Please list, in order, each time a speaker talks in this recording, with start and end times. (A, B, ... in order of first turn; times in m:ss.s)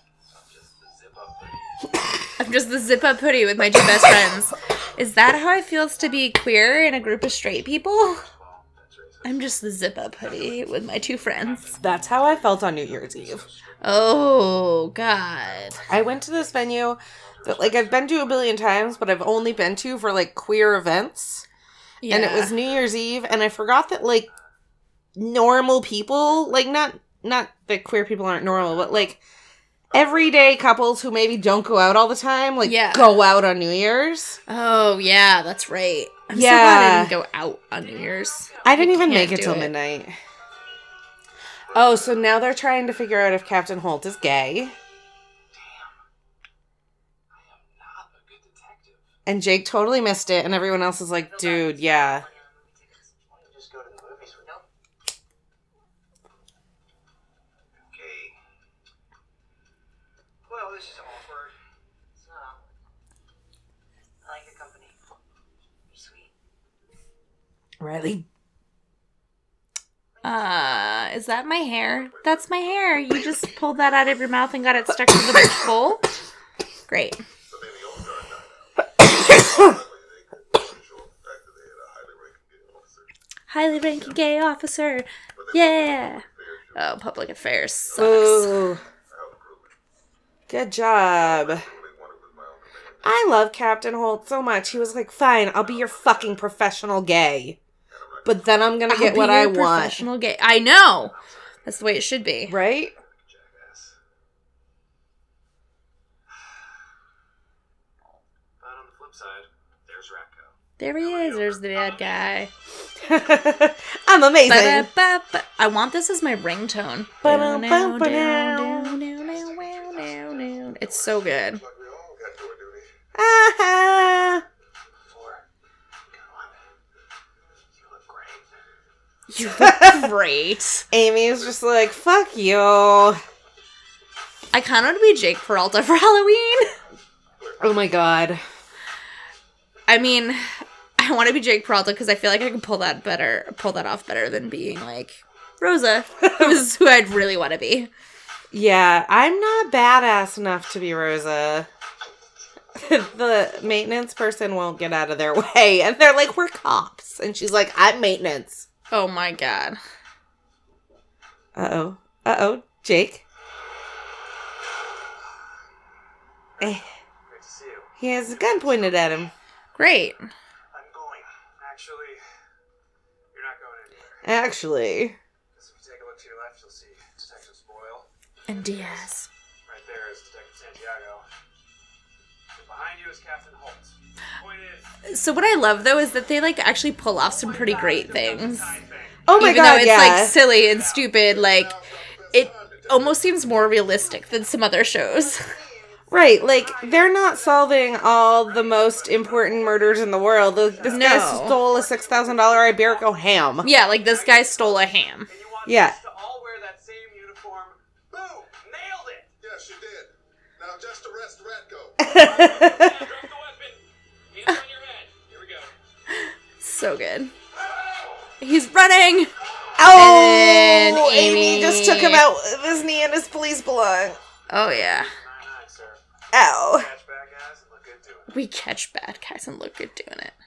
0:00.3-0:01.9 A
0:02.4-0:08.2 B
0:08.0-0:09.6 A
0:09.2-0:11.7 B
0:10.2-0:14.5 A
0:11.8-0:13.4 C
0:13.8-0:15.8 B
0:15.2-0:19.7 A
0:15.9-0:21.5 C
0:22.0-0:22.5 B
0:22.1-0:24.3 C
0:25.2-0:29.2 C
0:28.5-0:29.0 D
0:29.9-0:30.6 D
0:29.9-0:34.4 C
0:32.6-0:33.2 B
0:34.5-0:39.7 B
0:36.3-0:37.1 C
0:37.9-0:38.7 A
0:38.0-0:38.8 E
0:38.6-0:40.2 C
0:41.7-0:44.8 C
0:41.8-0:42.0 D
0:45.5-0:46.0 A
0:47.3-0:49.1 A
0:49.3-0:52.2 C
0:51.1-0:53.4 E
0:53.3-0:54.5 A
0:54.4-0:54.6 E
0:57.8-0:58.4 A
1:00.5-1:01.6 A
1:02.2-1:02.7 E
1:04.2-1:05.0 E
1:05.9-1:06.3 E
1:07.8-1:08.3 C
1:10.2-1:11.1 E
1:10.2-1:16.1 B
1:11.7-1:14.6 D
1:16.9-1:17.2 B
1:17.5-1:23.1 D
1:19.0-1:19.8 C
1:23.5-1:26.2 B
1:23.8-1:24.2 D
1:25.3-1:29.7 D
1:26.8-1:28.7 B
1:28.0-1:28.8 C
1:30.5-1:31.7 C
1:31.1-1:33.1 D
1:33.0-1:37.6 C
1:35.7-1:36.0 D
1:37.9-1:38.6 D
1:38.2-1:40.1 C
1:38.9-1:42.6 B
1:41.0-1:41.8 A
1:42.5-1:43.0 C
1:42.9-1:44.0 A
1:48.6-1:52.5 A
1:50.8-1:52.5 B
1:53.0-1:54.9 C
1:54.5-2:01.6 B
1:57.2-1:59.0 C
1:59.1-2:01.1 A
2:01.3-2:02.9 D
2:03.2-2:04.4 C
2:05.1-2:05.4 A
2:06.1-2:06.6 A
2:07.7-2:08.5 A
2:09.3-2:10.8 B
2:09.4-2:10.1 C
2:10.9-2:13.2 C
2:14.5-2:16.7 B
2:17.6-2:18.4 C
2:19.9-2:20.4 B
2:21.0-2:27.9 B
2:26.2-2:26.6 C
2:28.5-2:31.7 C
2:32.8-2:38.7 C
2:38.9-2:39.8 B
2:41.6-2:43.2 C
2:46.6-2:49.3 A
2:46.6-2:46.8 C
2:48.0-2:49.3 C
2:49.8-2:50.3 B
2:50.7-2:52.2 A
2:53.3-2:54.3 A
2:54.2-2:55.2 C
2:55.5-2:59.1 A
2:58.5-2:59.3 B
2:59.7-3:01.3 A
3:02.5-3:05.0 A
3:05.1-3:08.7 B
3:07.4-3:08.1 E
3:07.4-3:09.3 A
3:09.3-3:10.4 C
3:09.3-3:11.8 B
3:10.2-3:11.1 A
3:11.2-3:14.0 D
3:12.3-3:15.5 B
3:15.1-3:17.2 E
3:16.1-3:23.7 C
3:16.5-3:23.0 A
3:20.7-3:21.5 E
3:20.8-3:21.6 B
3:23.6-3:25.3 B
3:23.6-3:27.8 A
3:25.6-3:26.0 C
3:28.1-3:28.5 D
3:28.4-3:29.3 A
3:29.4-3:32.2 D
3:32.0-3:33.1 C
3:32.1-3:35.7 A
3:36.1-3:37.3 B
3:38.4-3:39.3 B
3:39.8-3:44.2 C
3:39.8-3:42.2 B
3:44.5-3:45.1 B
3:44.6-3:46.0 A
3:46.3-3:46.9 C
3:46.6-3:48.3 A
3:48.3-3:50.4 B